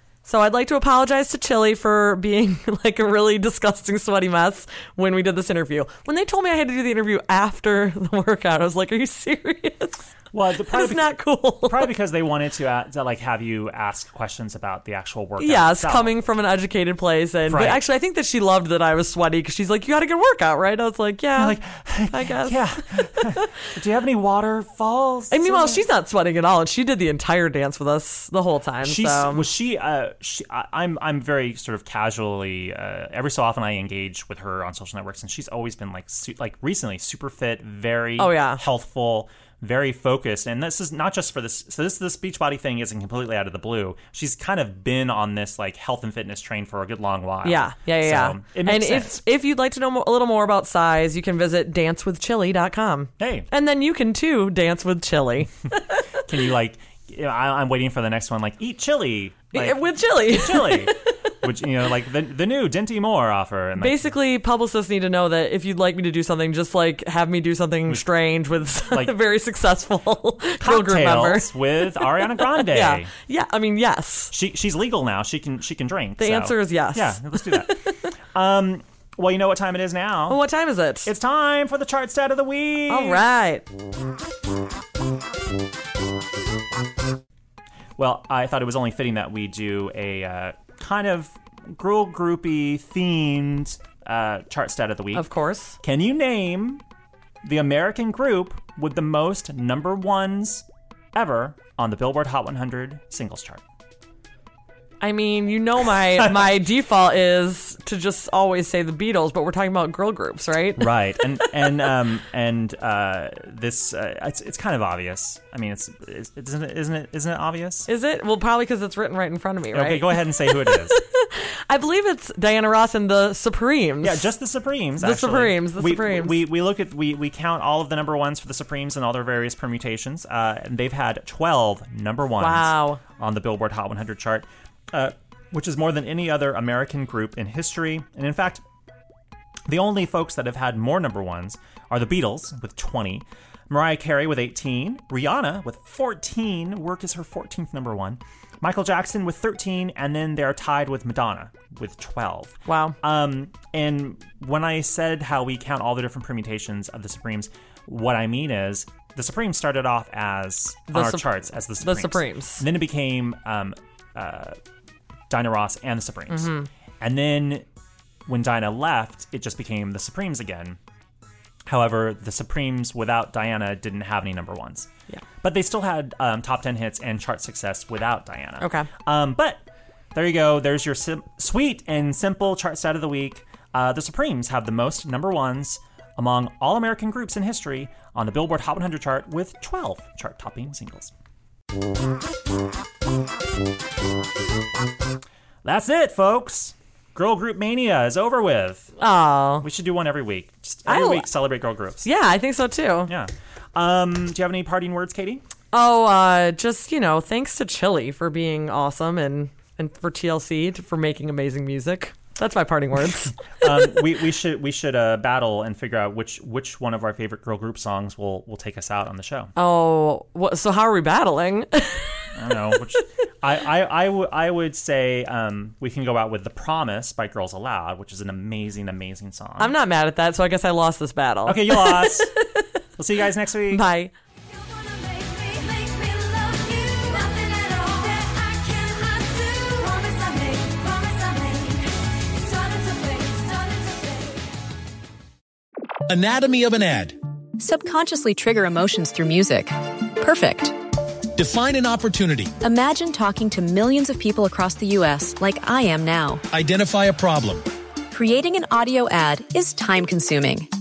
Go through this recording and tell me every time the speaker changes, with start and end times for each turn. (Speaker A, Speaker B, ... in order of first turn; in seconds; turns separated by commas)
Speaker A: 0.2-10.0, Speaker B: 10.3-11.1, Speaker A: 10.7-11.9, Speaker B: 11.6-16.1, Speaker A: 15.4-21.6, Speaker B: 17.5-17.8, Speaker B: 21.4-25.8, Speaker A: 22.1-22.6, Speaker A: 25.3-29.4, Speaker B: 28.8-49.2, Speaker A: 38.2-38.6, Speaker A: 47.4-56.1, Speaker B: 53.2-53.5, Speaker B: 56.2-64.1, Speaker A: 59.5-61.0, Speaker A: 63.8-71.5, Speaker B: 68.9-69.2, Speaker B: 70.6-73.1, Speaker A: 72.2-74.3, Speaker B: 74.3-80.4, Speaker A: 76.2-78.0, Speaker A: 80.3-81.1, Speaker B: 81.0-83.2, Speaker A: 82.9-83.6, Speaker B: 88.0-95.2, Speaker A: 95.1-95.8, Speaker B: 95.8-96.8, Speaker B: 97.4-103.6, Speaker A: 105.0-110.9, Speaker B: 106.2-106.5, Speaker B: 110.8-117.9, Speaker A: 117.9-124.2, Speaker B: 119.7-121.0, Speaker B: 124.0-138.6, Speaker A: 125.0-126.4, Speaker A: 132.4-133.0, Speaker B: 139.7-164.6, Speaker A: 152.7-153.0, Speaker A: 160.9-162.6, Speaker B: 165.3-167.6, Speaker A: 166.3-166.7, Speaker B: 168.2-170.8, Speaker B: 171.7-174.9, Speaker B: 175.4-179.6, Speaker A: 178.6-178.9, Speaker B: 180.1-191.1, Speaker B: 195.6-198.9, Speaker A: 199.0-199.7, Speaker B: 199.6-202.1, Speaker A: 200.9-201.2, Speaker A: 202.0-203.1, Speaker B: 203.1-205.4, Speaker A: 205.7-213.7, Speaker B: 213.5-219.5, Speaker A: 219.6-222.3, Speaker B: 222.3-229.7, Speaker A: 229.6-232.7, Speaker B: 231.4-232.3, Speaker B: 233.0-233.8, Speaker A: 233.7-234.1, Speaker C: 234.9-241.6, Speaker C: 242.7-243.8, Speaker D: 246.1-247.2, Speaker E: 247.6-250.7, Speaker D: 251.3-252.6, Speaker E: 252.6-256.4, Speaker D: 256.5-257.6, Speaker E: 258.1-260.7